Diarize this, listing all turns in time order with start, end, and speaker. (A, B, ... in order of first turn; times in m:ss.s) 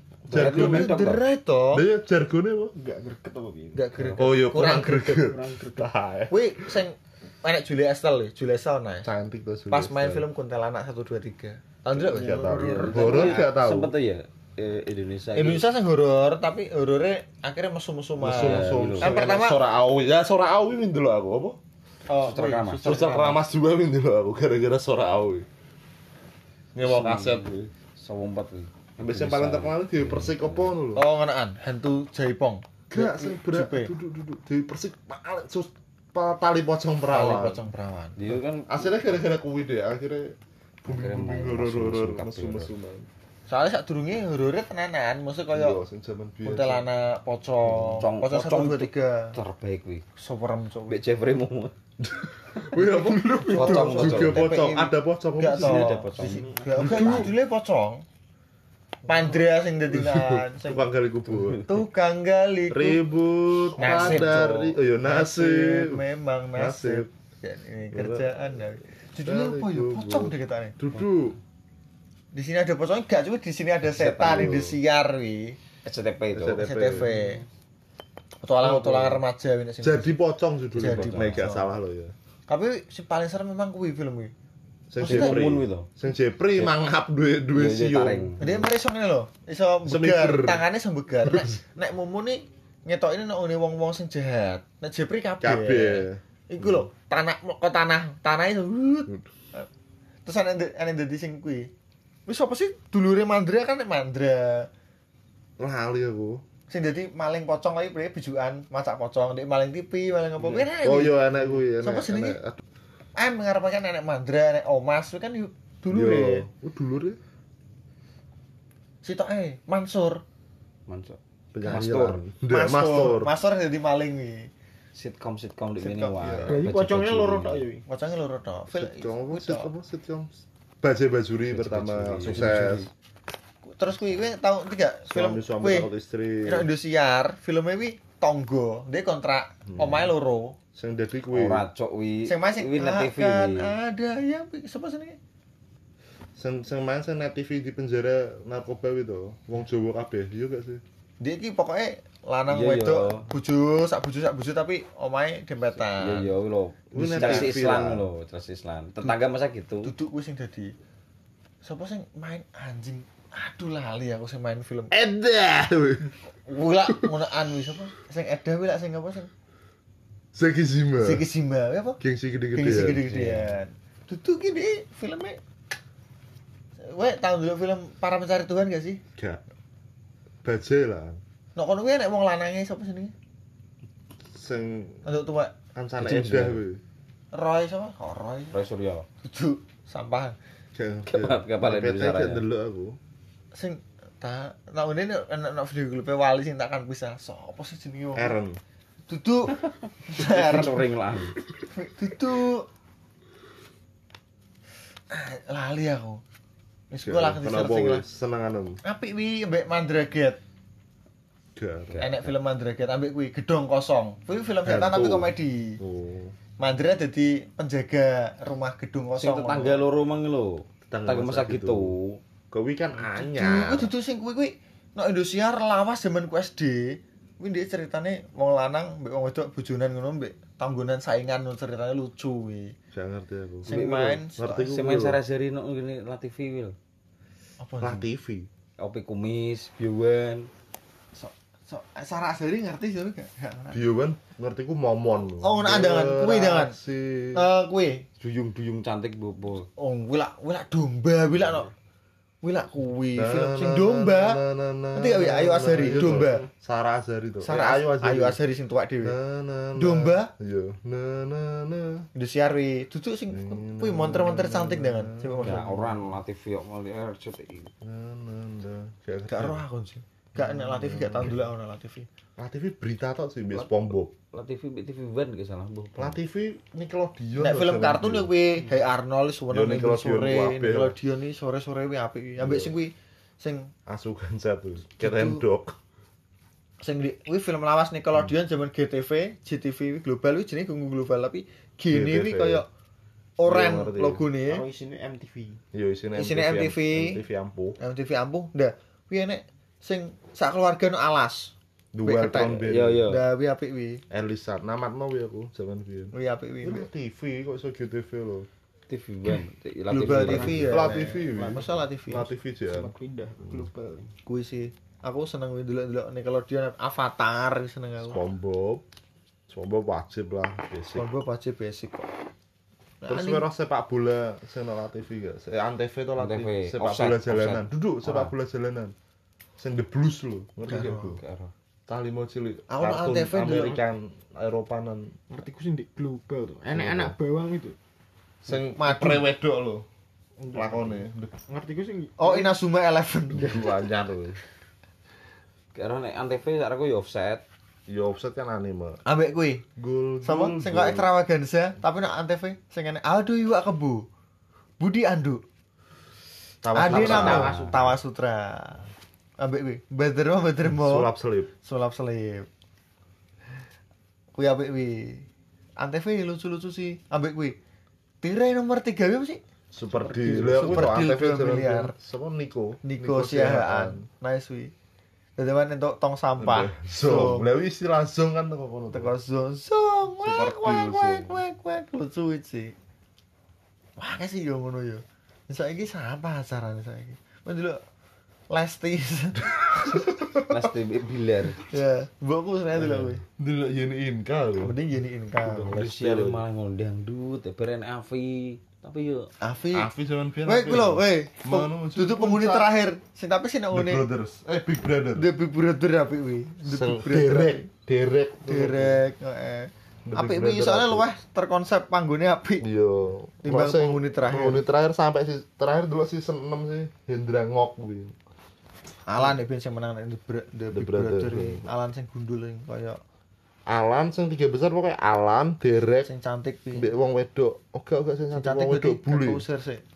0:00.3-0:01.1 A
0:00.3-0:01.2 B
0:00.3-0:01.8 C
0:01.7-0:02.7 A
0:02.8-0:05.9 D
0:03.7-0:05.2 C
0:04.1-0:06.8 A
0:06.3-0:09.1 C
0:09.0-0:10.3 A
0:09.7-0:13.4 C
0:11.9-0:13.9 A
0:12.2-0:13.4 D
0:12.5-0:15.7 B
0:15.3-0:19.6 C
0:18.2-0:21.6 A
0:18.3-0:19.2 B
0:22.1-0:23.4 C
0:22.2-0:23.2 B
0:22.8-0:25.5 A
0:26.8-0:27.7 A
0:26.8-0:30.7 B
0:29.0-0:31.0 A
0:31.0-0:33.9 C
0:32.9-0:37.6 A
0:37.1-0:38.2 C
0:38.2-0:38.7 B
0:38.7-0:43.1 A
0:40.9-0:42.7 B
0:43.5-0:45.8 C
0:45.5-0:46.8 A
0:46.4-0:49.4 C
0:47.6-0:48.1 A
0:48.0-0:50.0 B
0:50.2-0:51.0 C
0:50.9-0:51.7 B
0:52.0-0:55.9 A
0:53.5-0:58.0 C
0:53.5-0:54.6 B
0:55.5-0:57.3 B
0:56.2-0:57.3 D
0:56.8-0:57.3 A
0:59.0-1:00.9 C
0:59.9-1:01.7 A
1:01.7-1:03.0 C
1:02.7-1:06.0 A
1:03.8-1:10.8 C
1:03.8-1:04.3 B
1:06.6-1:07.1 A
1:07.9-1:08.3 A
1:09.2-1:11.4 A
1:12.3-1:15.6 C
1:13.9-1:14.7 B
1:14.2-1:14.7 A
1:15.8-1:17.3 B
1:16.3-1:17.1 A
1:16.6-1:17.4 C
1:18.4-1:20.1 C
1:18.6-1:19.2 B
1:19.8-1:22.1 A
1:20.7-1:21.7 C
1:20.8-1:21.5 B
1:22.5-1:24.3 C
1:24.9-1:28.4 A
1:25.0-1:25.9 B
1:25.0-1:25.4 C
1:27.5-1:28.6 B
1:28.4-1:39.7 C
1:29.8-1:30.6 A
1:31.2-1:31.6 A
1:35.4-1:36.9 A
1:40.2-1:41.7 C
1:42.3-1:44.7 C
1:45.6-1:46.4 A
1:46.7-1:52.4 C
1:50.8-1:52.6 A
1:53.2-1:56.5 C
1:55.9-1:57.2 A
1:59.0-2:00.2 C
2:00.9-2:02.2 B
2:01.5-2:03.3 A
2:02.5-2:04.5 C
2:04.9-2:07.7 B
2:05.8-2:06.6 A
2:06.2-2:06.5 C
2:06.5-2:07.8 D
2:07.9-2:09.7 C
2:08.7-2:12.9 A
2:11.5-2:12.9 B
2:13.7-2:15.9 C
2:15.1-2:16.7 A
2:16.4-2:20.6 C
2:19.7-2:20.0 A
2:20.7-2:21.6 A
2:21.3-2:23.7 B
2:22.2-2:25.2 C
2:26.4-2:30.8 A
2:31.2-2:36.3 C
2:32.5-2:33.3 B
2:35.8-2:39.9 B
2:36.9-2:37.5 C
2:36.9-2:38.1 A
2:39.8-2:40.7 C
2:41.6-2:44.9 C
2:44.9-2:46.2 A
2:46.5-2:49.3 C
2:50.3-2:51.3 A
2:51.0-2:52.0 C
2:52.0-2:53.2 A
2:52.5-2:55.4 C
2:53.1-2:53.5 B
2:56.8-2:59.0 C
2:59.2-2:59.4 A
3:00.4-3:01.2 A
3:01.6-3:03.1 C
3:04.3-3:05.1 A
3:05.0-3:05.6 C
3:05.7-3:06.8 A
3:06.0-3:06.6 B
3:07.3-3:08.6 C
3:08.5-3:09.1 B
3:09.2-3:10.4 C
3:10.8-3:13.0 A
3:11.1-3:12.4 B
3:13.5-3:18.3 C
3:18.2-3:18.6 A
3:19.1-3:20.9 C
3:19.6-3:21.4 B
3:21.7-3:22.7 C
3:25.1-3:26.2 C
3:26.9-3:28.0 C
3:27.0-3:28.8 A
3:28.8-3:30.4 C
3:31.6-3:32.0 A
3:31.9-3:32.3 B
3:32.0-3:35.8 C
3:34.6-3:36.3 A
3:36.6-3:39.8 C
3:39.2-3:42.2 B
3:40.9-3:41.9 A
3:42.5-3:43.9 A
3:43.2-3:52.8 C
3:52.9-3:53.8 A
3:53.7-3:54.6 C
3:53.7-3:56.8 B
3:54.4-3:55.2 A
3:57.6-3:58.0 C
3:57.8-3:58.5 A
3:58.8-4:00.5 B
4:01.2-4:03.8 C
4:03.7-4:07.4 A
4:05.4-4:06.8 C
4:07.3-4:08.1 C
4:08.4-4:09.7 B
4:09.8-4:11.7 C
4:12.4-4:14.4 C
4:13.2-4:18.4 A
4:14.9-4:16.5 C
4:17.4-4:19.2 C
4:19.0-4:22.1 A
4:19.8-4:20.3 C
4:22.2-4:25.9 C
4:23.3-4:26.0 A
4:25.4-4:27.7 B
4:27.8-4:29.6 A
4:29.3-4:32.1 C
4:30.3-4:31.5 A
4:32.4-4:34.1 A
4:34.3-4:36.2 B
4:36.0-4:38.3 A
4:37.4-4:43.7 C
4:39.5-4:41.0 A
4:42.4-4:42.7 A
4:43.9-4:45.8 A
4:45.0-4:45.4 C
4:46.8-4:52.7 C
4:51.9-4:52.6 A
4:53.4-4:54.6 C
4:53.4-4:54.2 A
4:54.5-4:55.6 D
4:55.7-4:57.8 A
4:56.2-4:57.2 C
4:57.8-5:04.0 C
5:01.9-5:03.1 A
5:02.6-5:03.2 B
5:04.1-5:08.5 A
5:06.1-5:06.9 C
5:08.9-5:10.7 B
5:09.9-5:12.3 C
5:10.2-5:12.9 A
5:10.2-5:11.8 D
5:12.6-5:14.1 D
5:14.2-5:18.2 C
5:18.0-5:18.8 A
5:19.5-5:21.0 A
5:21.0-5:22.1 C
5:23.0-5:23.4 C
5:23.1-5:28.9 A
5:26.2-5:28.3 B
5:29.6-5:31.2 A
5:30.7-5:31.2 C
5:30.9-5:31.5 B
5:31.9-5:35.2 A
5:32.7-5:33.8 C
5:35.3-5:37.8 D
5:36.7-5:37.2 A
5:38.4-5:39.9 A
5:38.8-5:39.2 C
5:40.5-5:41.3 A
5:41.5-5:42.5 D
5:42.2-5:43.7 C
5:43.4-5:44.4 A
5:45.8-5:47.4 B
5:47.9-5:49.0 A
5:49.1-5:49.6 C
5:49.8-5:51.1 A
5:50.2-5:54.1 C
5:54.8-5:55.4 C
5:56.6-5:57.6 A
5:56.7-5:58.9 C
5:56.9-5:57.6 D
5:56.9-5:57.9 B
5:59.4-6:01.1 C
6:00.6-6:01.5 A
6:01.6-6:02.5 C
6:04.3-6:05.3 C
6:05.8-6:07.6 C
6:08.2-6:09.4 C
6:09.7-6:14.0 A
6:10.0-6:10.8 D
6:10.5-6:11.9 C
6:12.8-6:14.7 C
6:15.4-6:17.5 C
6:16.4-6:19.1 A
6:18.9-6:22.8 C
6:20.2-6:21.4 A
6:24.0-6:27.8 C
6:28.5-6:30.1 C
6:29.9-6:30.4 A
6:30.5-6:31.6 B
6:31.7-6:33.2 C
6:32.8-6:34.8 A
6:34.6-6:35.8 C
6:35.5-6:36.4 A
6:35.7-6:39.3 B
6:39.4-6:39.9 C
6:39.7-6:42.7 A
6:40.5-6:44.1 C
6:43.7-6:45.3 A
6:45.2-6:47.7 C
6:46.7-6:49.0 A
6:48.5-6:52.7 C
6:50.1-6:51.1 A
6:52.6-6:58.2 A
6:53.4-6:54.6 C
6:59.1-7:03.0 C
7:00.7-7:01.7 A
7:03.7-7:06.1 A
7:06.0-7:06.9 C
7:06.8-7:09.4 A
7:08.4-7:09.8 C